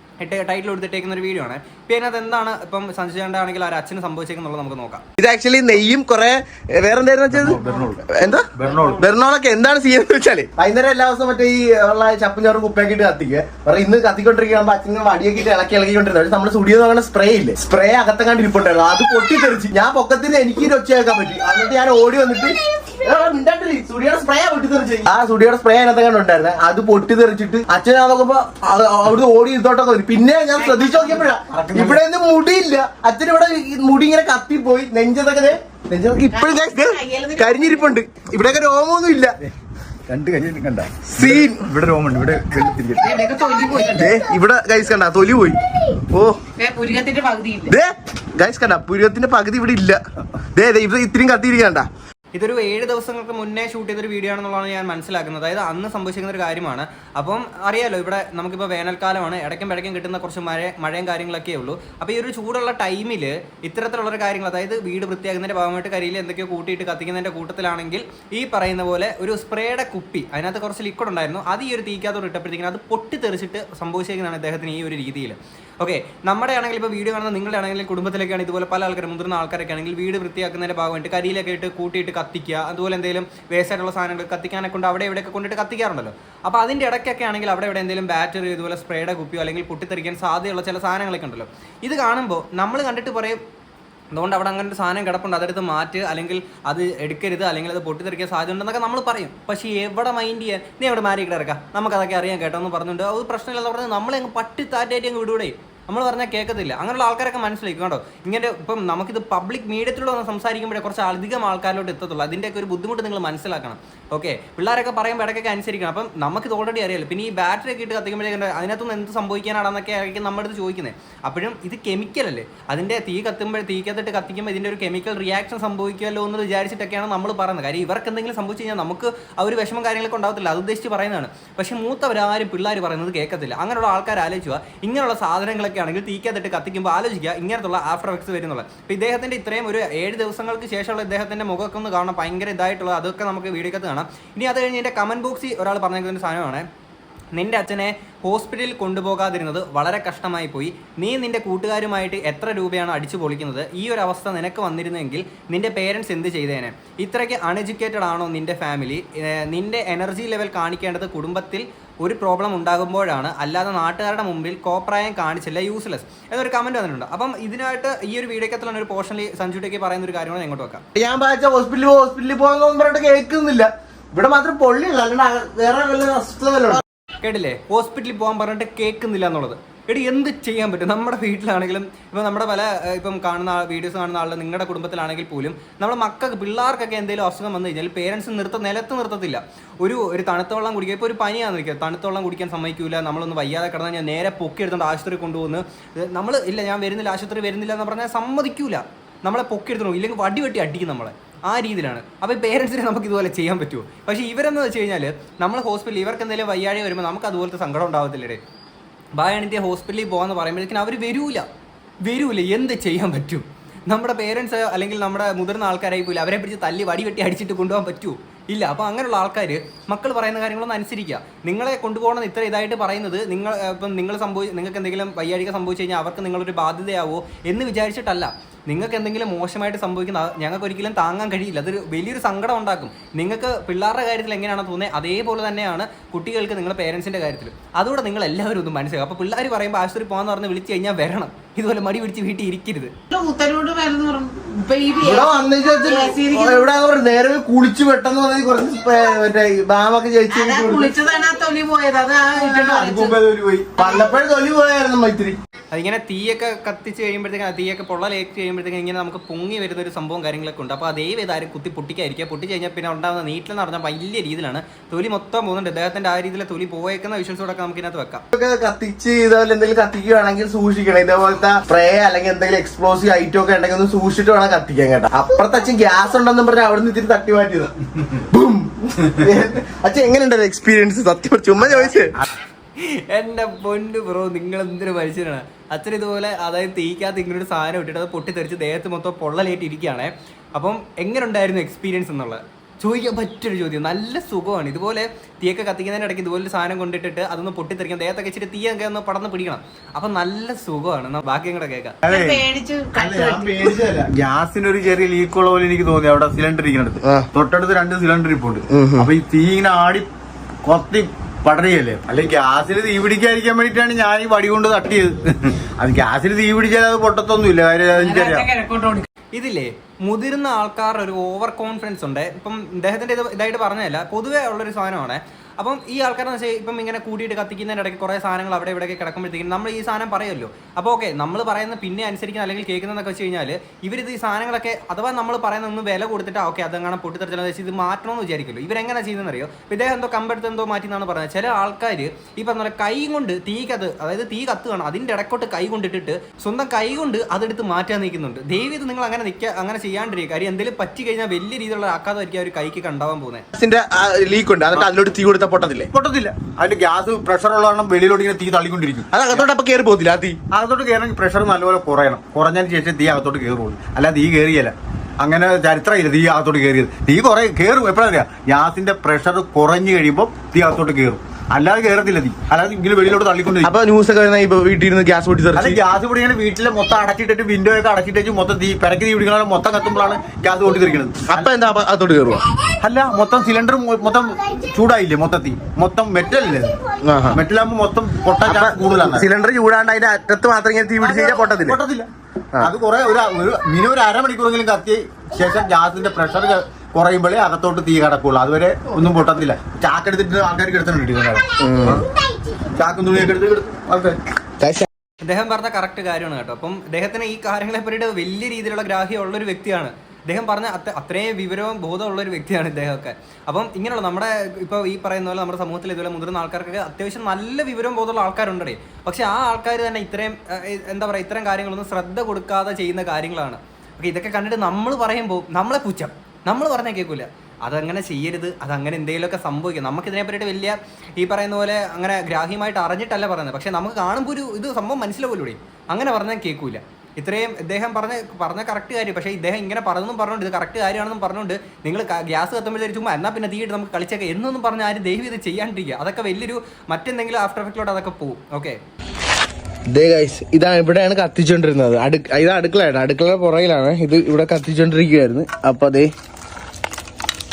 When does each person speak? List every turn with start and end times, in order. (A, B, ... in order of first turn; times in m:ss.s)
0:00.2-0:05.0 A
0:05.2-0:39.4 B
0:07.3-0:08.0 C
0:08.6-0:09.0 C
0:30.6-0:31.2 D
0:31.5-0:32.0 C
0:36.3-0:38.0 D
0:40.1-0:43.3 C
0:41.2-0:41.7 B
0:43.0-0:44.1 D
0:43.8-0:46.4 B
0:46.6-0:47.7 D
0:47.6-0:50.0 B
0:50.5-0:51.9 B
0:52.3-1:33.4 A
1:34.1-2:26.6 A
2:27.3-2:50.8 A
2:50.9-2:56.8 B
2:57.2-3:28.4 A
3:29.2-3:31.4 A
3:32.0-4:02.9 A
4:03.1-4:06.7 D
4:05.0-4:11.0 B
4:10.3-4:13.2 D
4:12.4-4:13.7 C
4:13.8-4:14.1 D
4:13.8-4:15.4 B
4:15.7-4:28.2 A
4:28.3-4:42.1 B
4:41.6-4:41.9 C
4:42.8-5:02.0 A
5:02.0-5:10.1 C
5:02.0-5:03.8 D
5:08.7-5:09.1 B
5:10.6-5:18.5 C
5:18.0-5:19.1 D
5:19.3-5:53.4 A
5:53.5-5:55.9 B
5:55.9-5:59.5 C
5:59.1-6:00.4 B
6:00.5-6:13.7 C
6:13.6-6:15.8 B
6:15.6-6:21.5 C
6:21.3-6:22.4 B
6:22.8-6:26.8 C
6:27.0-6:27.4 B
6:27.3-6:29.3 C
6:28.4-6:31.8 B
6:31.0-6:32.1 C
6:32.6-6:42.1 C
6:41.6-6:42.1 B
6:42.7-6:44.2 C
6:44.6-6:44.8 B
6:45.2-7:28.8 A
7:29.9-7:36.1 B